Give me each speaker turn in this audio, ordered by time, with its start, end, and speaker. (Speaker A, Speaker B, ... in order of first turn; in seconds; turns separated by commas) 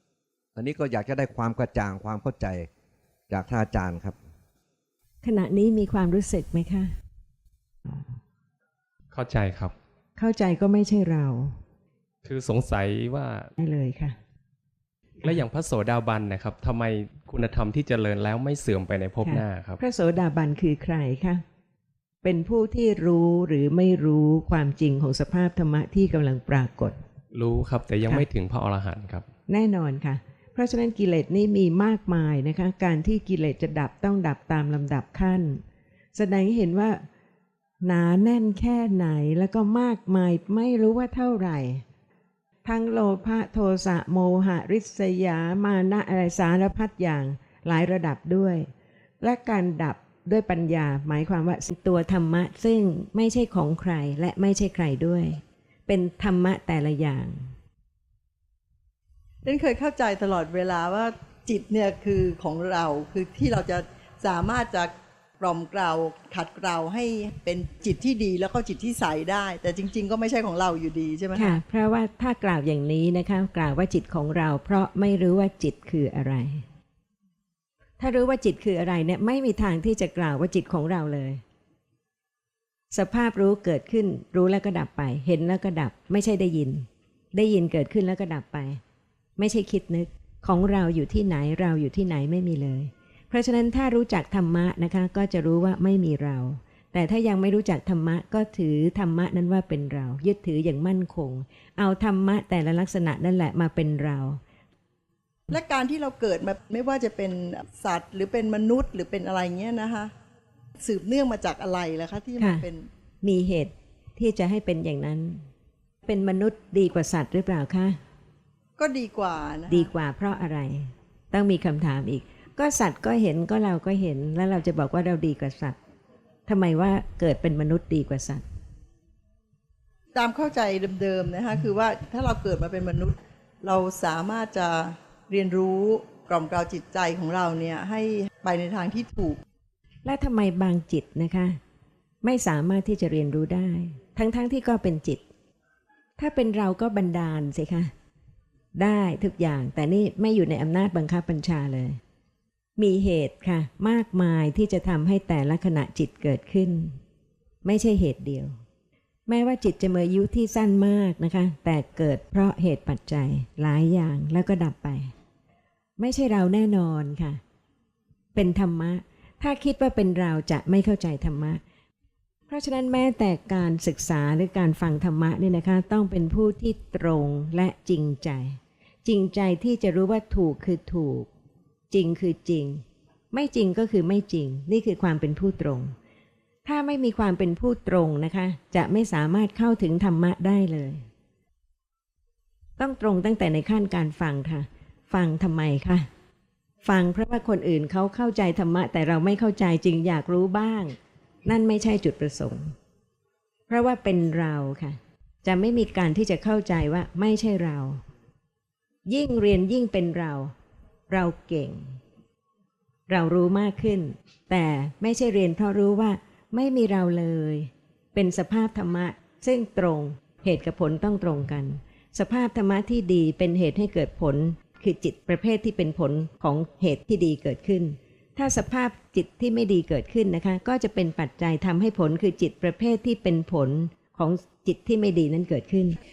Speaker A: 0.6-2.7, Speaker A: 3.3-4.2, Speaker B: 5.2-6.9, Speaker C: 9.1-9.7, Speaker B: 10.2-11.6, Speaker C: 12.2-13.5, Speaker B: 13.6-14.2, Speaker C: 15.2-19.8, Speaker B: 19.2-21.4, Speaker B: 22.2-27.0, Speaker C: 27.3-29.2, Speaker B: 29.5-35.6, Speaker B: 36.1-37.0, Speaker B: 37.8-41.8, Speaker B: 42.6-48.7, Speaker B: 49.2-57.5, Speaker D: 59.5-71.6, Speaker B: 71.3-76.7, Speaker B: 78.0-81.4, Speaker B: 82.9-88.8, Speaker B: 89.4-104.4, Speaker D: 105.5-110.1, Speaker D: 110.8-112.9, Speaker B: 112.4-112.7, Speaker B: 113.2-115.4, Speaker B: 116.0-118.0, Speaker D: 118.8-119.9, Speaker B: 119.7-125.8, Speaker B: 126.5-128.4, Speaker D: 130.1-139.4, Speaker B: 140.1-141.6, Speaker B: 142.2-145.3, Speaker B: 146.2-147.9, Speaker B: 148.8-152.0, Speaker B: 152.8-157.0, Speaker B: 157.6-158.5, Speaker B: 159.3-165.1, Speaker B: 166.0-167.4, Speaker B: 168.3-171.6, Speaker B: 172.5-181.3, Speaker B: 181.9-185.9, Speaker B: 186.7-191.0, Speaker B: 192.8-196.1, Speaker B: 196.8-202.7, Speaker B: 203.7-208.0, Speaker B: 209.1-210.5, Speaker B: 211.1-212.0, Speaker B: 213.1-236.0